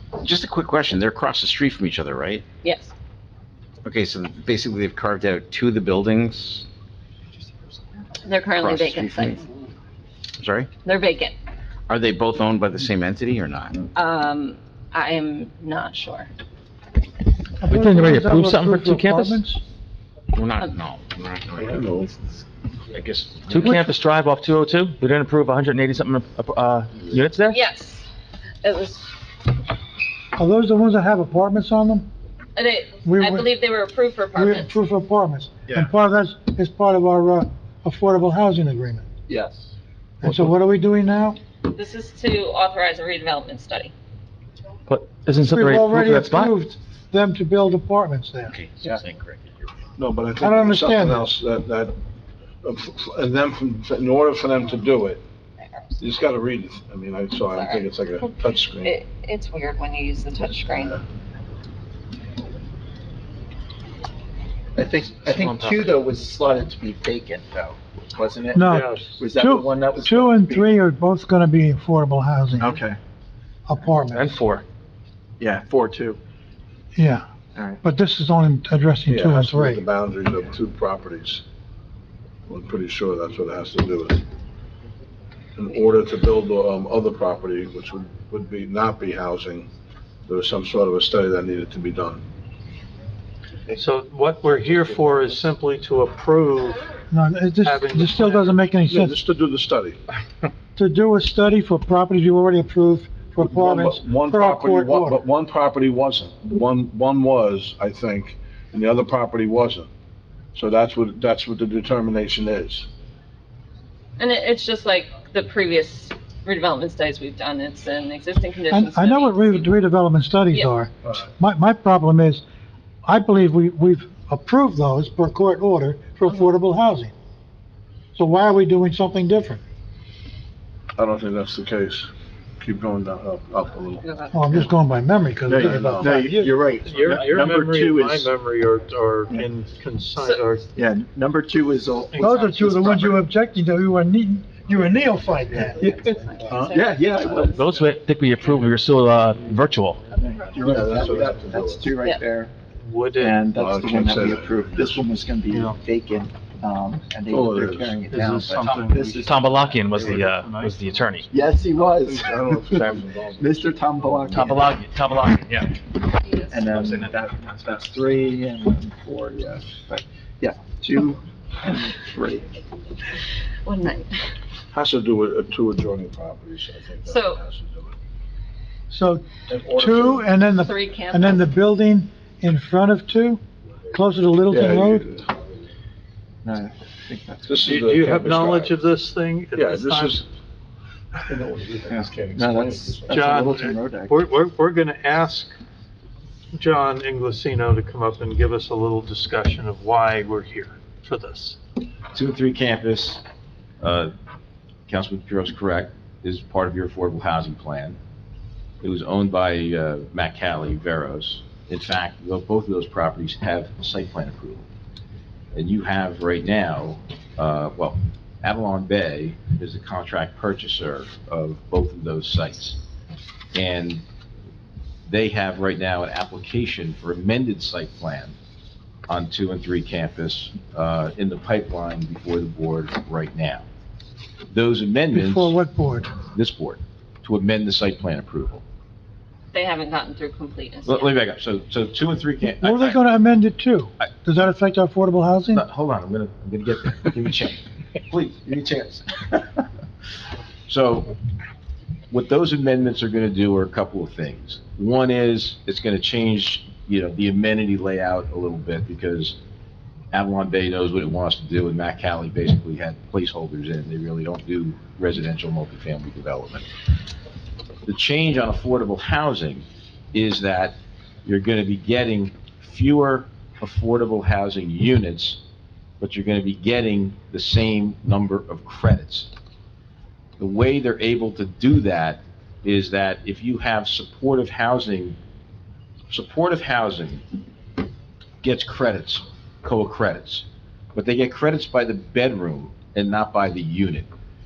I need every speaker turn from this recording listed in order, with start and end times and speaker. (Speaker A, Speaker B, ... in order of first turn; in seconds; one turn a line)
Speaker A: 0.2-2.4
Speaker B: 2.6-2.9
Speaker A: 3.8-6.7
Speaker B: 8.2-9.4
Speaker A: 8.6-9.4
Speaker A: 10.4-10.7
Speaker B: 10.8-11.4
Speaker A: 11.9-13.8
Speaker B: 13.9-16.3
Speaker C: 17.6-19.6
Speaker D: 17.7-19.4
Speaker A: 20.3-21.9
Speaker E: 21.6-22.2
Speaker A: 22.9-23.6
Speaker D: 23.4-27.6
Speaker C: 23.5-24.0
Speaker B: 27.5-28.1
Speaker B: 28.6-29.1
Speaker C: 30.4-32.1
Speaker B: 32.5-34.8
Speaker C: 33.0-33.5
Speaker C: 34.3-39.0
Speaker F: 39.3-39.7
Speaker C: 40.2-41.4
Speaker B: 41.7-43.9
Speaker D: 44.9-46.6
Speaker C: 45.4-48.6
Speaker A: 48.5-49.7
Speaker E: 50.0-52.0
Speaker C: 50.4-51.3
Speaker E: 52.6-55.2
Speaker E: 56.0-59.0
Speaker B: 57.5-61.0
Speaker F: 64.8-70.8
Speaker D: 65.3-65.9
Speaker C: 68.5-72.8
Speaker G: 68.6-69.2
Speaker F: 72.6-73.0
Speaker C: 73.7-74.4
Speaker D: 74.1-74.7
Speaker F: 75.4-76.2
Speaker C: 77.0-77.2
Speaker C: 77.8-79.8
Speaker E: 79.1-81.4
Speaker E: 82.5-84.2
Speaker E: 85.6-89.7
Speaker E: 90.3-92.2
Speaker G: 93.7-96.8
Speaker C: 97.1-99.2
Speaker G: 97.6-98.7
Speaker E: 98.9-100.0
Speaker C: 100.8-105.2
Speaker E: 103.4-109.9
Speaker E: 110.5-112.9
Speaker B: 114.2-119.7
Speaker C: 118.7-122.4
Speaker C: 123.0-127.1
Speaker B: 126.3-126.6
Speaker C: 128.2-129.6
Speaker E: 131.0-134.7
Speaker B: 134.0-134.7
Speaker C: 134.3-136.5
Speaker F: 135.5-138.3
Speaker E: 135.5-136.2
Speaker G: 136.8-140.7
Speaker F: 140.7-143.1
Speaker G: 142.1-143.2
Speaker C: 142.2-145.9
Speaker F: 145.5-147.6
Speaker B: 145.8-147.7
Speaker E: 146.5-146.8
Speaker D: 147.5-150.0
Speaker B: 150.1-151.1
Speaker F: 150.2-152.5
Speaker E: 150.6-152.0
Speaker G: 152.8-153.5
Speaker F: 153.2-159.8
Speaker E: 153.5-155.1
Speaker G: 155.5-155.8
Speaker E: 157.3-158.0
Speaker G: 158.1-161.1
Speaker D: 159.2-161.3
Speaker F: 161.3-164.7
Speaker E: 161.7-164.4
Speaker D: 162.7-163.0
Speaker D: 164.3-165.8
Speaker B: 166.2-166.5
Speaker F: 166.5-172.5
Speaker D: 166.6-167.1
Speaker B: 173.7-174.1
Speaker E: 174.7-177.9
Speaker B: 177.0-177.4
Speaker C: 178.9-185.1
Speaker E: 179.4-180.3
Speaker B: 180.5-181.5
Speaker E: 184.5-185.3
Speaker F: 186.4-187.6
Speaker E: 187.5-188.8
Speaker G: 187.6-190.3
Speaker E: 189.6-190.2
Speaker E: 191.2-193.5
Speaker F: 191.9-194.2
Speaker G: 193.1-195.6
Speaker G: 196.5-201.6
Speaker H: 202.1-203.2
Speaker H: 203.8-204.1
Speaker H: 204.9-208.0
Speaker H: 208.8-214.7
Speaker H: 215.5-222.8
Speaker H: 223.6-224.0
Speaker H: 225.1-228.3
Speaker H: 229.1-233.7
Speaker H: 234.5-235.6
Speaker C: 235.1-236.2
Speaker H: 236.2-238.6
Speaker B: 239.5-241.1
Speaker H: 240.8-243.1
Speaker C: 242.6-245.6
Speaker H: 245.5-249.6
Speaker H: 250.7-251.2
Speaker H: 252.1-259.4
Speaker H: 260.1-266.6
Speaker H: 267.9-275.4
Speaker H: 276.0-279.3
Speaker H: 280.4-285.2
Speaker H: 286.1-287.2
Speaker H: 288.4-294.1